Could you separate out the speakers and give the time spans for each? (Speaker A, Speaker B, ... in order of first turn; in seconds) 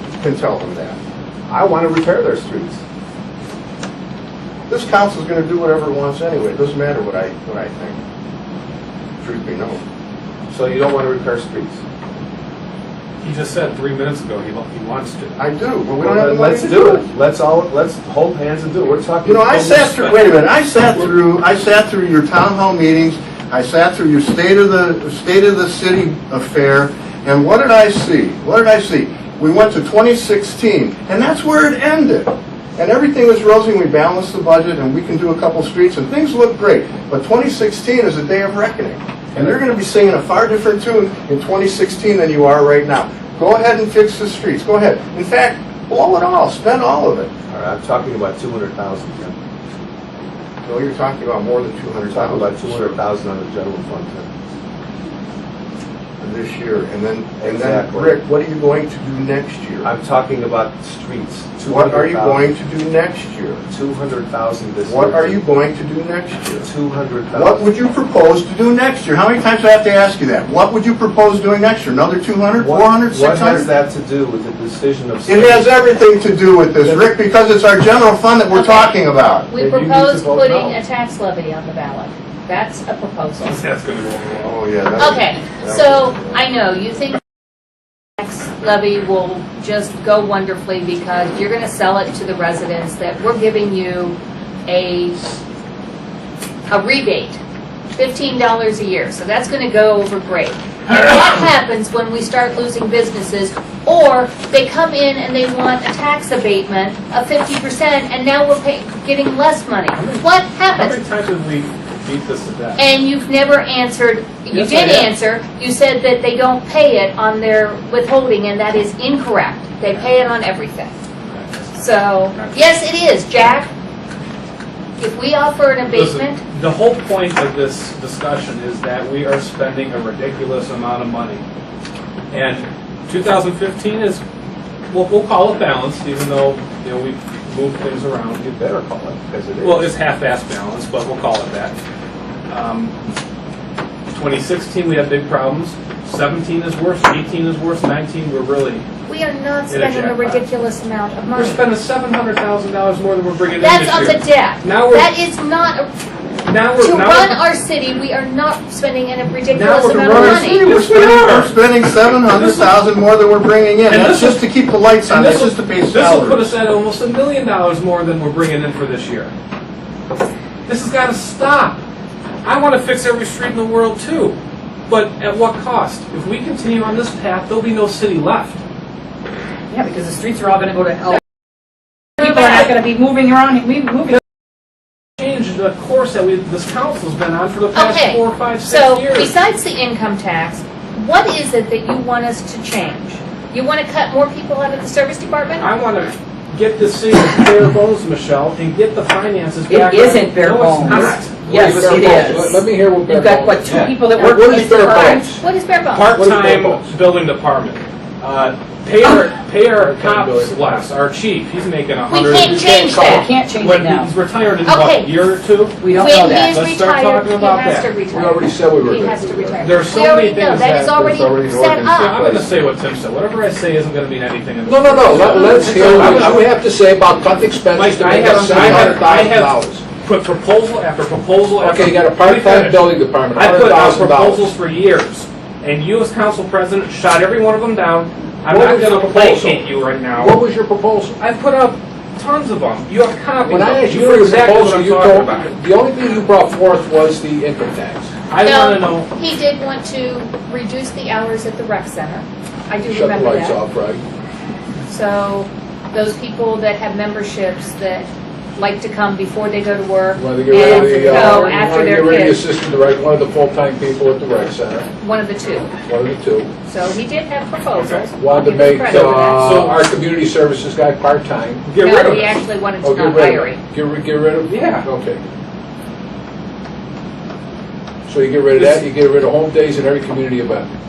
Speaker A: 0.2-1.0, 4.7-8.0, 9.2-9.8, 15.4-17.0, 19.2-47.3, 50.6-53.0, 56.2-59.9, 61.6-63.6, 64.8-66.7, 67.3-73.7, 75.2-79.5, 84.4-86.4, 160.1-166.5, 221.2-221.6, 228.2-229.7
Speaker B: 1.5-2.8, 10.5-11.8, 16.0-20.3, 39.3-39.6, 47.5-49.4, 52.1-54.3, 57.4-58.2, 59.8-62.5, 63.7-65.4, 66.6-67.7, 72.6-75.8, 76.8-77.1, 79.5-80.8, 139.1-139.9
Speaker C: 13.2-15.4, 83.4-84.5, 109.9-112.8, 114.5-115.1, 121.2-122.8, 125.9-131.4, 132.3-134.2, 134.9-141.8, 142.5-142.9, 144.1-148.8, 149.7-150.4, 151.3-155.2, 156.4-157.5, 159.4-162.8, 163.9-164.5, 165.1-169.3, 170.7-171.8, 172.4-174.4, 174.9-178.6, 185.2-189.3, 195.6-201.4, 205.9-217.9, 219.6-221.1, 221.8-226.5, 227.7-240.3, 241.2-245.5, 248.3-249.1, 260.6-261.6, 267.8-268.1, 268.8-269.9, 271.6-272.4, 274.5-274.9, 278.5-278.9
Speaker D: 78.5-83.6, 85.0-87.2, 88.2-95.3, 96.7-97.4, 97.9-111.0, 112.8-120.9, 121.7-123.7, 125.0-126.4, 149.1-151.6, 153.6-155.9, 156.8-160.6, 187.7-195.7, 205.4-206.1, 212.1-213.3, 214.6-215.1, 215.9-222.4, 225.3-226.1, 248.4-253.6, 254.9-262.4, 265.0-265.7, 266.6-269.6, 271.8-273.6
Speaker E: 179.7-181.2, 182.2-184.2, 199.7-205.3, 212.7-214.1, 215.8-216.6
Speaker F: 200.9-205.4, 206.1-206.9, 209.8-210.8, 218.1-219.7, 224.6-229.7, 231.6-234.5, 238.5-239.6, 240.1-241.2, 243.4-248.1, 252.9-254.0, 260.1-264.9, 265.8-266.5, 268.2-271.7, 272.8-275.2, 278.1-280.7